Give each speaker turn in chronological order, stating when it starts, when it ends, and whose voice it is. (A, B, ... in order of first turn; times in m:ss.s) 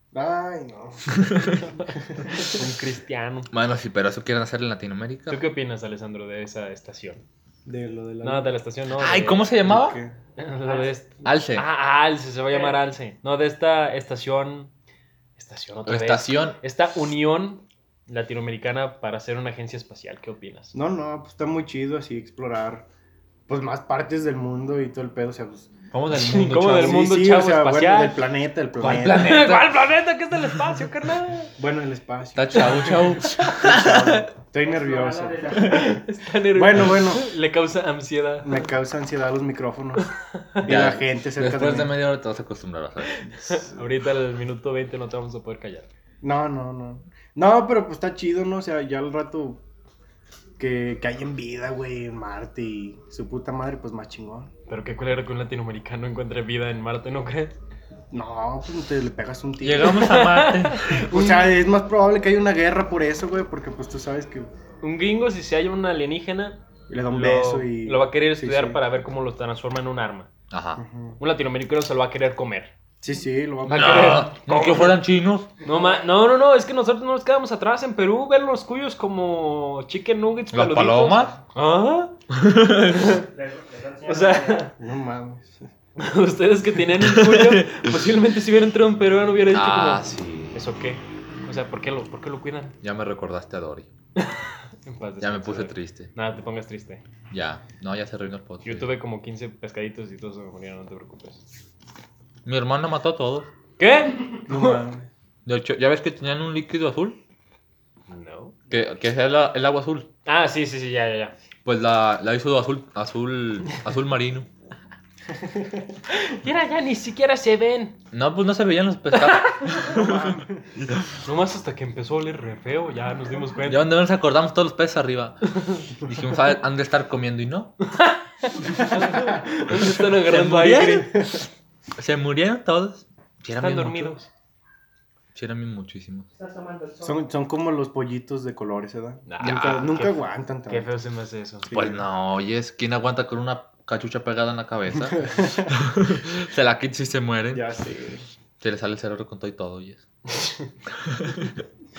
0:00.1-0:02.5 A
0:01.1-0:01.6 B
0:01.6-0:03.5 C
0:03.5-0:05.4 B
0:05.3-0:07.2 C
0:07.6-0:08.5 A
0:08.2-0:09.6 C
0:08.9-0:10.0 B
0:09.6-0:10.2 A
0:10.4-0:14.7 C
0:10.6-0:10.9 D
0:11.2-0:11.6 B
0:12.5-0:12.8 D
0:15.4-0:20.7 C
0:15.8-0:16.6 B
0:20.7-0:22.9 A
0:23.5-0:25.7 A
0:25.9-0:27.0 B
0:26.1-0:28.2 C
0:26.5-0:29.5 A
0:28.8-0:29.8 B
0:29.1-0:31.5 C
0:31.6-0:35.6 A
0:32.3-0:34.2 B
0:32.6-0:33.6 C
0:34.6-0:36.0 D
0:35.6-0:38.6 C
0:36.5-0:37.3 A
0:38.4-0:40.1 A
0:40.2-0:40.6 C
0:40.6-0:41.9 A
0:40.6-0:43.6 B
0:43.2-0:45.9 C
0:46.2-0:49.6 A
0:50.6-0:54.5 A
0:54.7-0:57.5 C
0:58.1-1:00.2 A
0:59.6-1:01.0 B
0:59.8-1:01.5 C
1:00.9-1:04.5 A
1:04.8-1:10.3 C
1:06.9-1:08.8 A
1:10.5-1:10.8 B
1:10.8-1:11.2 A
1:11.2-1:12.7 C
1:13.0-1:14.3 A
1:13.7-1:15.5 B
1:13.7-1:15.0 C
1:15.6-1:23.3 C
1:15.6-1:16.0 D
1:20.5-1:21.3 B
1:22.4-1:22.9 B
1:23.2-1:24.7 D
1:24.0-1:24.7 C
1:24.8-1:25.7 A
1:26.0-1:32.8 C
1:27.0-1:27.6 B
1:29.5-1:30.6 B
1:32.8-1:33.9 B
1:34.2-1:37.0 C
1:35.2-1:36.1 B
1:37.3-1:38.9 B
1:38.6-1:41.4 C
1:42.4-1:43.5 B
1:43.8-1:44.8 C
1:44.5-1:45.1 A
1:45.4-1:47.2 B
1:48.1-1:48.6 C
1:48.7-1:50.1 B
1:50.2-1:51.3 C
1:51.6-1:54.5 B
1:56.1-1:58.0 C
1:58.1-2:01.2 B
1:59.1-1:59.6 C
1:59.9-2:00.7 A
2:01.2-2:03.9 C
2:03.6-2:07.8 B
2:05.5-2:05.8 C
2:07.9-2:11.2 C
2:10.2-2:11.3 B
2:11.1-2:11.4 A
2:12.0-2:14.2 B
2:13.6-2:14.3 C
2:15.3-2:16.3 B
2:16.3-2:17.2 D
2:17.0-2:20.9 A
2:19.2-2:21.7 C
2:19.4-2:20.0 B
2:21.7-2:22.0 A
2:21.7-2:27.7 B
2:25.0-2:25.8 A
2:27.5-2:28.2 A
2:28.6-2:30.0 B
2:30.4-2:30.6 C
2:30.9-2:31.6 B